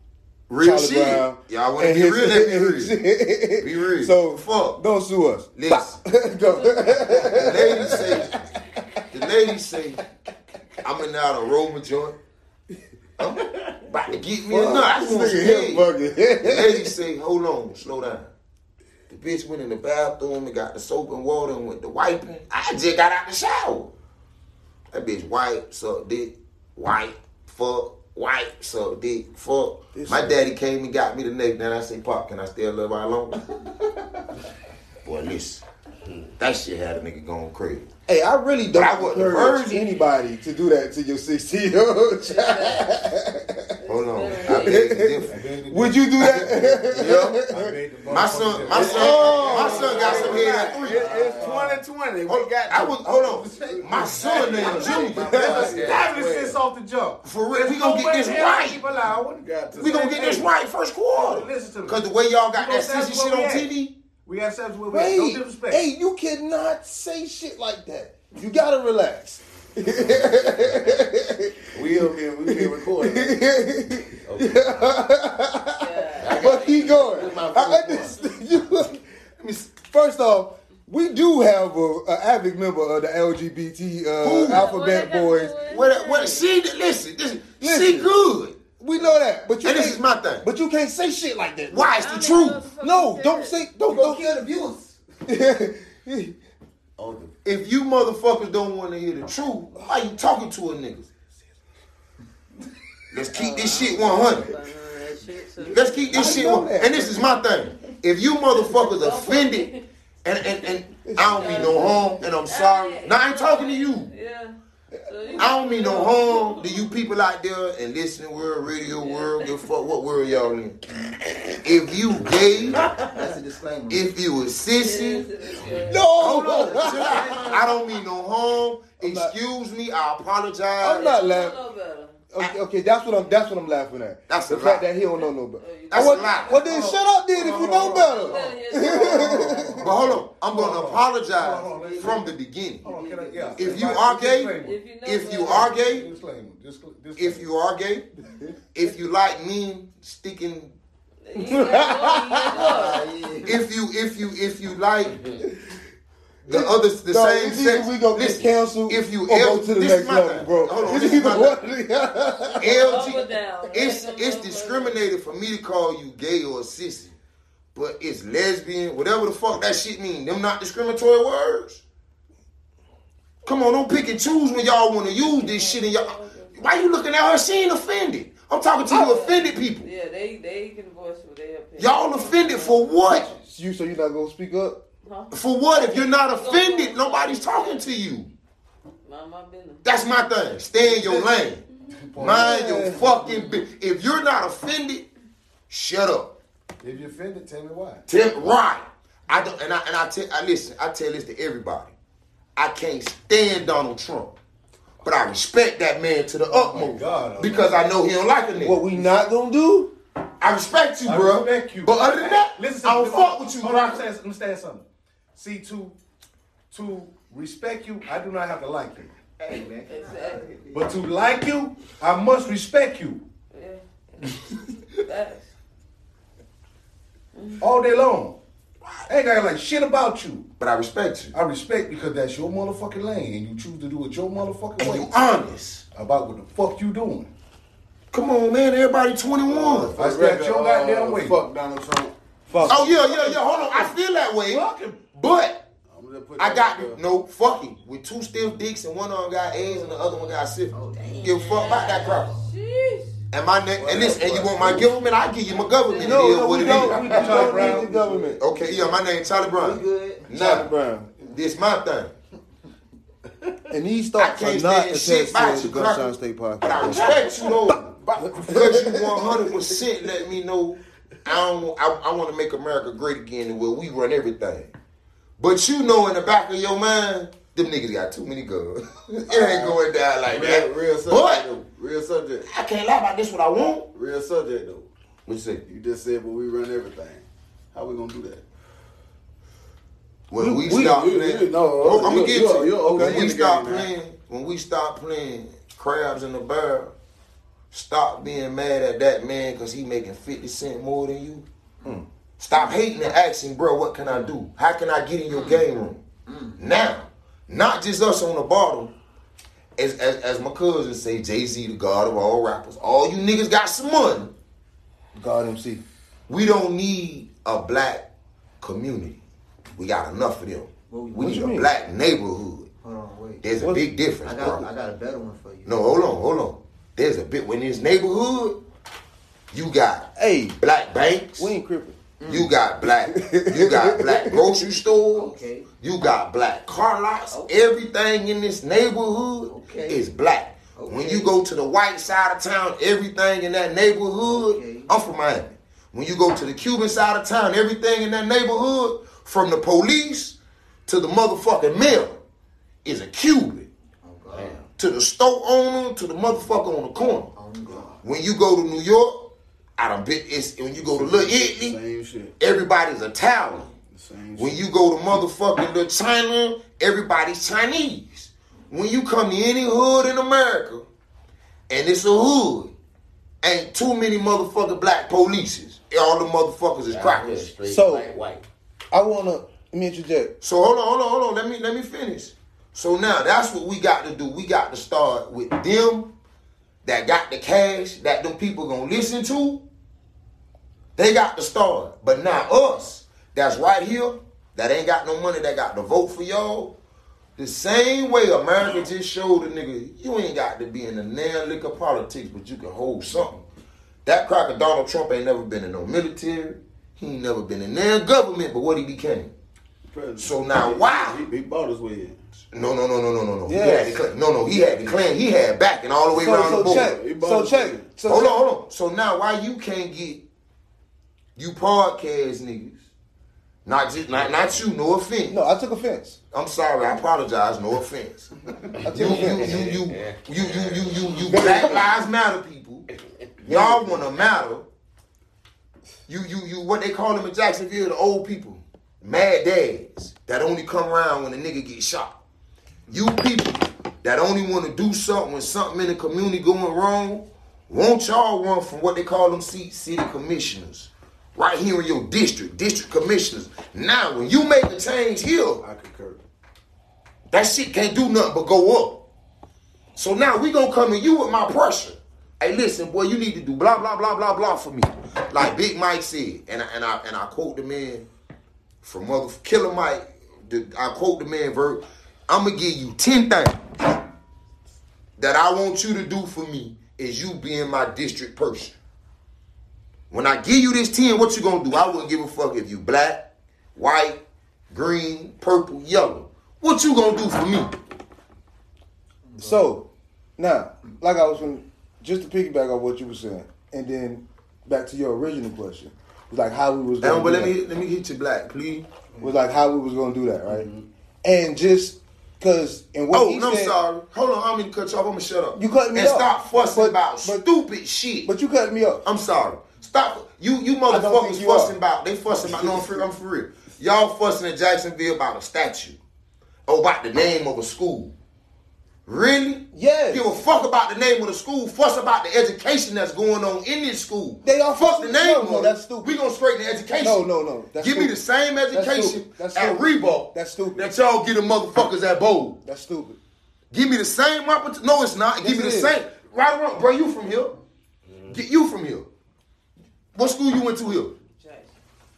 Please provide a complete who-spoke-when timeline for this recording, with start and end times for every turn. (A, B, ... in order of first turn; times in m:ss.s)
0:00.5-0:03.0 A
0:00.6-0:09.0 B
0:03.6-0:04.8 A
0:05.5-0:06.0 A
0:07.3-0:08.5 A
0:09.1-0:10.0 A
0:10.8-0:12.2 A
0:13.2-0:15.9 A
0:14.4-0:17.0 B
0:16.4-0:18.3 A
0:19.1-0:23.9 A
0:24.9-0:33.4 A
0:29.9-0:30.4 B
0:35.0-0:35.6 A
0:36.4-0:37.9 A
0:38.1-0:43.8 B
0:38.7-0:39.8 A
0:42.2-0:42.9 C
0:43.8-0:44.9 C
0:43.8-0:45.4 A
0:44.5-0:47.8 B
0:45.3-0:51.8 D
0:46.9-0:47.4 A
0:48.1-0:51.4 A
0:48.7-0:56.6 E
0:52.3-0:56.1 A
0:53.2-1:00.5 D
0:57.2-0:58.9 A
0:59.3-1:00.2 E
0:59.7-1:03.9 A
1:01.1-1:05.9 D
1:04.9-1:25.6 B
1:11.7-1:13.3 E
1:14.2-1:14.8 F
1:15.8-1:16.5 C
1:16.2-1:18.2 F
1:24.2-1:24.7 A
1:24.4-1:26.5 C
1:25.6-1:28.6 A
1:27.6-1:28.1 B
1:28.8-1:32.0 B
1:29.6-1:30.5 A
1:31.7-1:32.6 A
1:31.9-1:33.6 C
1:32.8-1:34.4 B
1:33.9-1:34.9 G
1:35.2-1:36.3 B
1:37.0-1:37.3 F
1:37.4-1:41.1 A
1:43.1-1:44.6 A
1:43.3-1:46.4 C
1:45.6-1:49.7 A
1:46.1-1:47.2 B
1:48.5-1:49.8 C
1:50.2-1:54.1 A
1:51.1-1:51.9 B
1:51.3-1:56.9 C
1:55.4-2:00.8 A
1:58.9-1:59.6 C
2:01.6-2:02.9 A
2:02.3-2:03.0 F
2:02.9-2:04.0 G
2:03.9-2:11.1 A
2:04.8-2:07.2 C
2:05.6-2:06.0 F
2:05.8-2:07.2 B
2:06.8-2:07.5 G
2:07.2-2:07.4 F
2:09.0-2:09.3 B
2:10.8-2:11.6 B
2:10.9-2:12.2 C
2:12.3-2:19.9 B
2:14.3-2:14.8 A
2:15.6-2:16.9 C
2:15.9-2:16.8 A
2:16.7-2:24.8 D
2:17.7-2:19.7 C
2:19.8-2:22.8 A
2:21.7-2:22.1 C
2:22.8-2:24.0 C
2:23.6-2:26.1 A
2:24.6-2:25.7 C
2:25.4-2:27.5 D
2:27.2-2:28.1 A
2:28.7-2:30.8 A
2:31.2-2:33.0 C
2:31.4-2:32.6 B
2:32.5-2:33.6 G
2:33.4-2:35.3 A
2:36.4-2:41.6 A
2:36.5-2:42.9 B
2:42.6-2:45.0 C
2:42.6-2:47.1 A
2:47.7-2:51.8 A
2:53.4-2:59.9 A
2:55.2-2:56.6 C
2:58.8-3:02.9 C
3:01.8-3:03.3 A
3:03.0-3:04.8 B
3:05.0-3:07.8 C
3:05.3-3:08.3 A
3:09.0-3:09.8 C
3:09.8-3:11.6 A
3:10.8-3:11.3 D
3:12.1-3:13.1 D
3:12.2-3:15.1 A
3:12.2-3:13.0 B
3:13.1-3:13.6 C
3:15.7-3:16.4 A
3:16.8-3:18.0 D
3:18.1-3:21.9 A
3:22.6-3:24.4 A
3:25.0-3:28.8 A
3:26.5-3:27.9 D
3:28.6-3:29.9 B
3:30.4-3:34.0 A
3:31.0-3:36.0 D
3:36.7-3:39.1 D
3:39.4-3:41.0 G
3:39.9-3:40.4 C
3:40.7-3:43.2 D
3:43.5-3:43.8 C
3:44.9-3:45.5 C
3:47.6-3:48.4 D
3:49.1-3:50.5 D
3:50.6-3:51.3 A
3:51.3-3:55.2 D
3:54.8-3:55.8 A
3:55.9-3:57.3 D
3:58.1-4:00.0 A
3:59.4-4:02.8 E
3:59.9-4:01.4 D
4:02.5-4:02.9 B
4:02.6-4:05.7 A
4:05.9-4:07.0 E
4:06.4-4:12.3 A
4:10.7-4:11.9 G
4:11.0-4:13.2 C
4:13.3-4:17.8 A
4:13.8-4:14.8 E
4:14.0-4:14.9 F
4:15.9-4:16.2 G
4:16.0-4:18.4 B
4:16.5-4:18.3 D
4:16.9-4:17.5 G
4:18.4-4:20.7 A
4:18.4-4:20.3 G
4:20.3-4:21.1 B
4:21.2-4:22.2 A
4:23.7-4:27.3 B
4:24.2-4:27.9 A
4:27.7-4:28.4 E
4:28.2-4:29.4 D
4:28.5-4:34.7 A
4:28.5-4:29.3 B
4:35.4-4:41.5 A
4:39.3-4:42.5 E
4:42.4-4:43.9 A
4:43.9-4:44.9 E
4:45.2-4:45.6 A
4:45.6-4:48.4 E
4:50.3-4:56.9 A
4:50.4-4:51.0 B
4:50.6-4:53.9 E
4:52.0-4:52.3 B
4:52.8-4:53.2 B
4:57.7-5:01.4 A
5:02.4-5:06.0 A
5:06.3-5:06.6 G
5:06.6-5:08.9 A
5:09.8-5:14.3 A
5:15.1-5:15.8 B
5:16.3-5:18.1 A
5:18.6-5:19.2 A
5:19.7-5:22.7 A
5:20.9-5:21.5 G
5:21.2-5:21.7 B
5:22.8-5:23.4 G
5:23.4-5:24.7 A
5:23.6-5:23.8 B
5:24.2-5:26.0 G
5:25.6-5:28.6 A
5:29.5-5:31.5 A
5:30.2-5:30.6 B
5:31.4-5:32.0 B
5:32.2-5:32.5 G
5:32.3-5:52.2 A
5:33.1-5:34.6 B
5:35.1-5:35.7 G
5:37.3-5:37.6 G
5:39.5-5:40.0 G
5:40.7-5:41.3 G
5:44.2-5:44.9 G
5:52.8-5:53.7 A
5:54.0-5:54.6 G
5:54.3-5:54.7 F
5:54.8-5:57.3 A
5:57.3-5:58.0 G
5:58.0-6:01.8 A
6:00.9-6:02.3 E
6:02.4-6:03.7 A
6:03.9-6:04.6 E
6:04.4-6:10.8 A
6:11.7-6:12.7 A
6:13.4-6:17.5 A
6:16.9-6:18.4 F
6:17.7-6:18.1 B
6:18.9-6:20.3 B
6:20.4-6:26.1 A
6:26.8-6:29.6 A
6:31.0-6:36.7 A
6:37.4-6:43.4 A
6:44.0-6:49.3 A
6:49.9-6:52.2 E
6:50.2-6:51.2 A
6:52.5-6:56.9 A
6:53.4-6:54.9 B
6:56.1-6:58.5 B
6:56.3-6:58.0 E
6:58.0-7:00.2 A
7:01.4-7:02.8 A
7:03.6-7:05.4 A
7:05.3-7:06.2 B
7:06.3-7:08.3 A
7:08.8-7:09.6 B
7:08.8-7:12.9 A
7:09.0-7:11.6 F
7:11.3-7:11.8 B
7:13.4-7:14.7 A
7:13.5-7:14.0 B
7:16.1-7:22.2 A
7:22.9-7:35.6 A
7:35.6-7:36.2 E
7:37.3-7:39.0 A
7:40.0-7:48.1 A
7:48.8-7:53.6 A
7:55.2-7:58.8 A
8:00.1-8:07.7 A
8:09.4-8:17.5 B
8:17.0-8:18.9 A
8:19.2-8:20.7 B
8:20.5-8:20.8 E
8:21.2-8:23.8 B
8:23.1-8:28.3 A
8:25.6-8:27.4 B
8:28.2-8:29.0 B
8:29.0-8:36.0 A
8:30.9-8:31.8 B
8:36.7-8:38.1 A
8:39.0-8:52.6 A
8:39.7-8:40.4 B
8:44.4-8:46.2 B
8:47.0-8:48.2 B
8:48.7-8:50.9 B
8:52.6-8:53.2 B
8:53.7-8:57.6 A
8:55.4-8:55.9 B
8:58.3-8:59.1 A
9:00.1-9:01.1 A
9:01.4-9:01.7 C